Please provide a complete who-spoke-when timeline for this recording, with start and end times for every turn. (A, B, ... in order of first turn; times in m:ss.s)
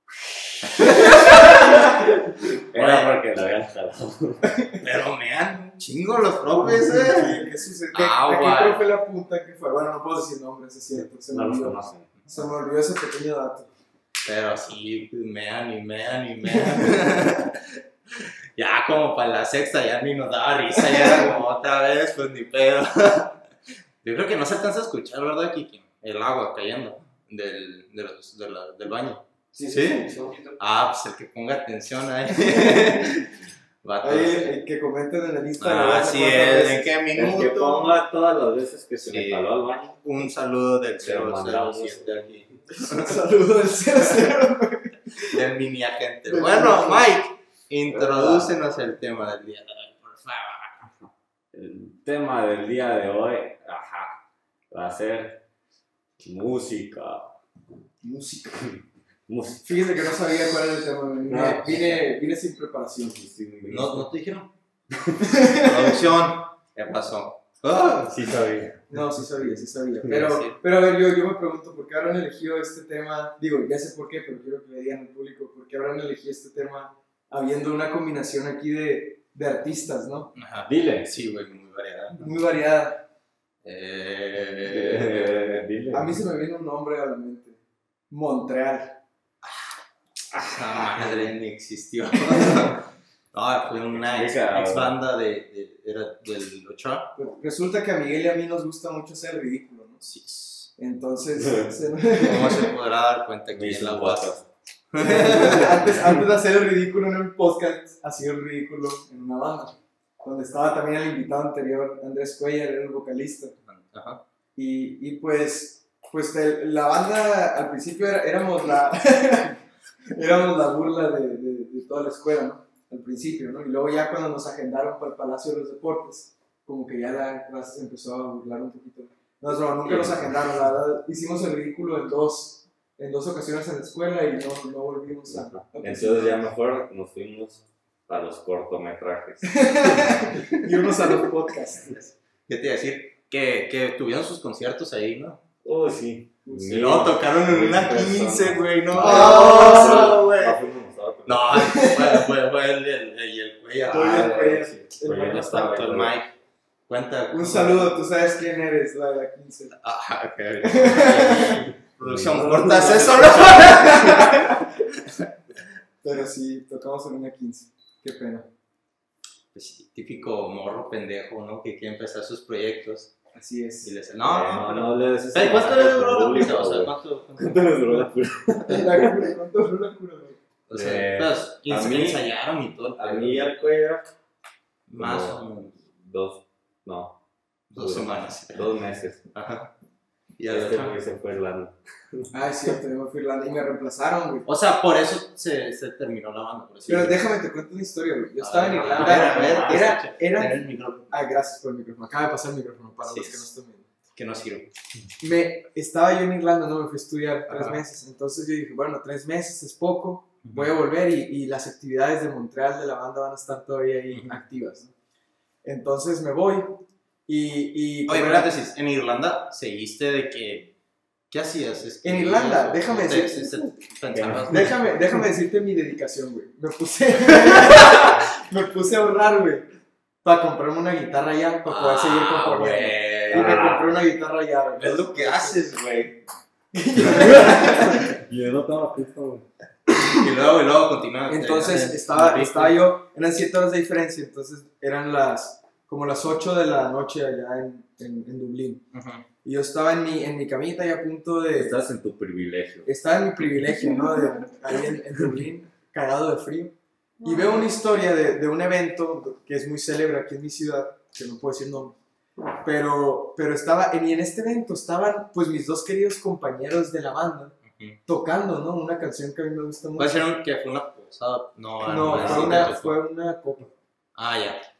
0:00.2-0:04.6 A
0:00.9-0:03.1 B
0:04.8-0:08.8 B
0:06.6-0:13.7 C
0:11.1-0:12.1 A
0:14.2-0:23.4 B
0:24.0-0:33.3 B
0:29.6-0:30.4 C
0:29.6-0:30.5 A
0:32.5-0:33.2 C
0:33.8-0:34.6 B
0:34.0-0:36.9 C
0:35.6-0:38.0 B
0:37.2-0:40.0 A
0:39.1-0:43.2 B
0:41.0-0:42.4 A
0:42.7-0:45.4 C
0:45.2-0:50.9 B
0:46.3-0:47.1 C
0:47.9-0:48.6 A
0:51.5-0:55.4 A
0:56.2-0:57.4 A
0:58.0-0:58.7 C
0:59.3-0:59.6 A
0:59.6-1:03.2 C
1:01.3-1:02.1 A
1:03.0-1:04.1 A
1:03.7-1:04.5 B
1:04.9-1:05.2 A
1:05.2-1:05.9 C
1:05.5-1:08.4 B
1:08.0-1:08.8 A
1:08.9-1:20.3 C
1:10.1-1:10.6 B
1:20.4-1:22.3 B
1:20.6-1:21.1 A
1:22.2-1:23.0 C
1:23.6-1:25.6 B
1:24.7-1:26.2 A
1:25.9-1:27.6 C
1:28.1-1:29.0 C
1:30.4-1:37.1 B
1:30.9-1:31.3 A
1:33.9-1:35.0 A
1:37.2-1:40.0 C
1:40.0-1:40.7 B
1:40.8-1:42.8 C
1:41.4-1:41.8 A
1:42.1-1:44.4 B
1:43.5-1:44.4 A
1:44.9-1:45.7 B
1:45.0-1:53.5 C
1:45.2-1:46.2 A
1:53.6-1:54.2 B
1:54.6-1:59.6 C
2:00.1-2:16.5 C
2:09.8-2:10.3 A
2:15.3-2:20.4 A
2:19.4-2:21.9 C
2:21.9-2:25.4 B
2:25.6-2:31.8 A
2:26.5-2:26.8 C
2:26.6-2:30.6 B
2:29.0-2:30.2 C
2:31.2-2:34.7 B
2:31.5-2:32.2 C
2:33.9-2:36.2 A
2:33.9-2:35.7 C
2:35.3-2:36.3 B
2:36.9-2:38.0 B
2:37.3-2:39.8 C
2:39.8-2:44.7 B
2:40.6-2:41.6 C
2:42.0-2:44.3 A
2:43.7-2:44.6 C
2:46.0-2:48.5 C
2:49.5-2:53.2 B
2:53.4-2:53.9 C
2:53.8-2:57.7 B
2:54.2-2:59.3 A
2:58.7-3:00.4 C
3:00.7-3:04.0 B
3:00.7-3:02.2 A
3:03.0-3:04.0 A
3:04.9-3:05.8 B
3:05.0-3:05.4 A
3:05.9-3:07.2 A
3:07.7-3:08.7 B
3:07.8-3:09.2 A
3:09.3-3:09.7 B
3:10.4-3:11.0 B
3:10.5-3:12.8 A
3:12.3-3:14.5 C
3:14.5-3:17.3 B
3:16.9-3:23.9 C
3:18.4-3:21.3 B
3:18.7-3:19.9 A
3:23.0-3:23.4 B
3:24.2-3:24.7 B
3:25.2-3:34.9 C
3:27.5-3:27.8 B
3:30.4-3:30.8 B
3:34.1-3:34.4 B
3:35.6-3:38.5 C
3:38.1-3:40.7 B
3:41.3-3:44.9 B
3:42.0-3:43.8 C
3:44.1-3:44.6 A
3:44.5-3:49.7 C
3:47.7-3:48.2 B
3:50.2-3:55.6 C
3:51.6-3:53.7 B
3:53.3-3:54.0 A
3:54.8-3:56.2 B
3:56.7-3:58.0 C
3:57.0-3:59.5 A
4:00.0-4:02.9 B
4:01.3-4:08.8 C
4:08.9-4:09.2 B
4:09.4-4:11.8 C
4:11.6-4:12.9 A
4:12.8-4:22.0 C
4:22.6-4:27.5 C
4:27.6-4:28.0 B
4:28.1-4:30.2 C
4:30.0-4:33.0 B
4:31.8-4:33.7 C
4:32.0-4:32.7 A
4:34.2-4:34.6 B